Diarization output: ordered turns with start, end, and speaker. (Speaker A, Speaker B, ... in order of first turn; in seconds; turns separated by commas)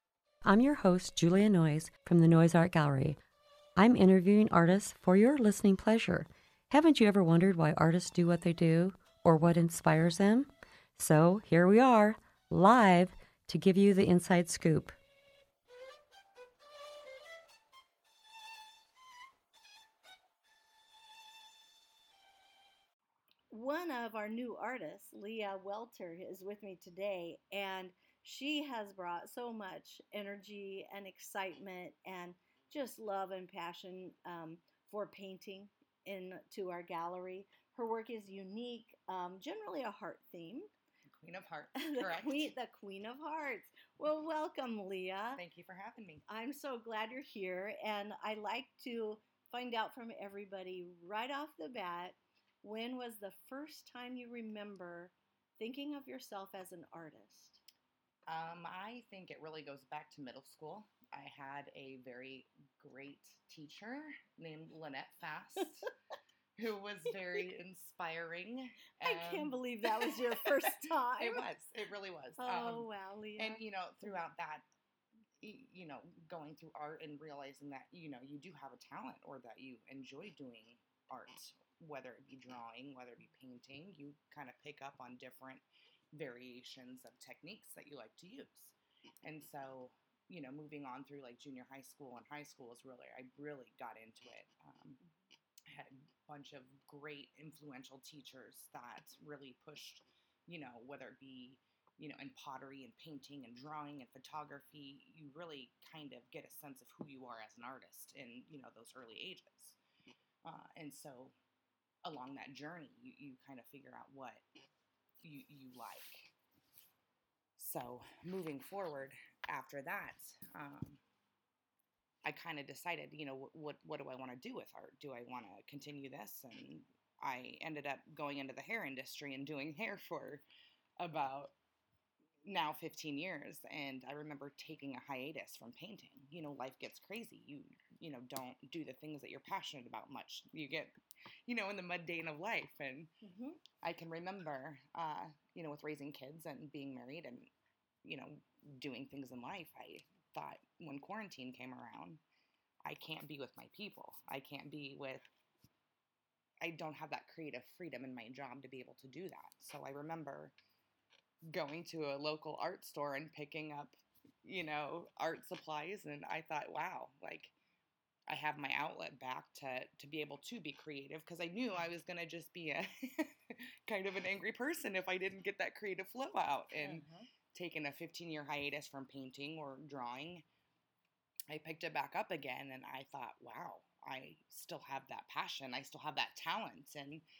Speaker A: 0.4-3.2, Speaker A: 3.8-14.9, Speaker B: 23.5-40.7, Speaker C: 41.2-42.5, Speaker B: 41.7-45.4, Speaker C: 45.3-46.2, Speaker B: 46.3-57.6, Speaker C: 58.3-65.9, Speaker C: 66.6-74.6, Speaker B: 69.0-71.5, Speaker B: 72.4-73.6, Speaker C: 75.4-95.0, Speaker C: 95.7-109.8, Speaker C: 110.4-111.3, Speaker C: 112.0-114.4, Speaker C: 115.2-116.3, Speaker C: 117.6-121.0, Speaker C: 122.2-130.4, Speaker C: 131.0-131.5, Speaker C: 132.4-140.9, Speaker C: 141.5-143.1, Speaker B: 143.2-143.6, Speaker C: 143.8-147.5, Speaker C: 148.0-152.2, Speaker C: 152.8-155.2, Speaker C: 156.6-160.5, Speaker C: 161.5-167.5, Speaker C: 168.3-180.4, Speaker B: 176.7-177.3, Speaker C: 181.5-187.2